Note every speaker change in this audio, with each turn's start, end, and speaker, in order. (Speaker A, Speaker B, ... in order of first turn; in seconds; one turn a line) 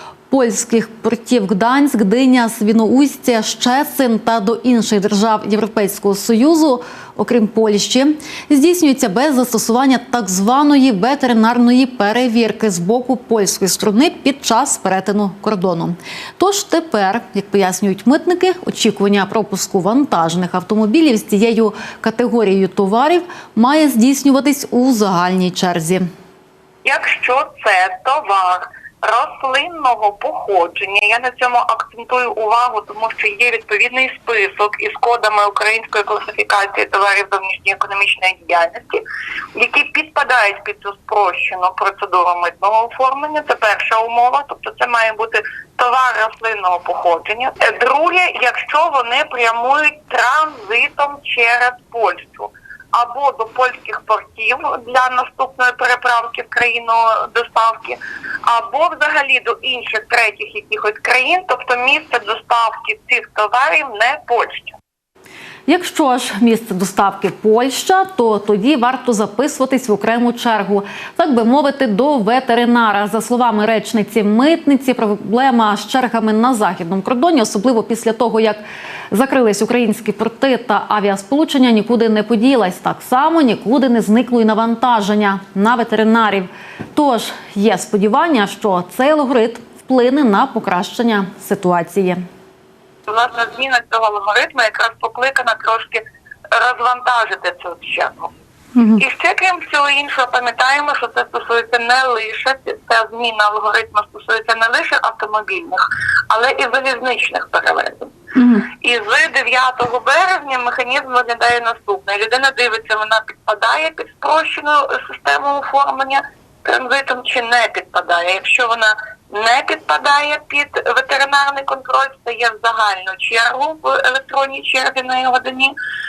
Speaker A: 0.3-26.1
Speaker B: 26.8-39.0
Speaker B: 39.5-64.8
Speaker A: 65.7-78.6
Speaker A: 79.1-92.2
Speaker B: 93.1-98.3
Speaker B: 99.0-108.1
Speaker A: 108.4-108.7
Speaker B: 108.7-125.7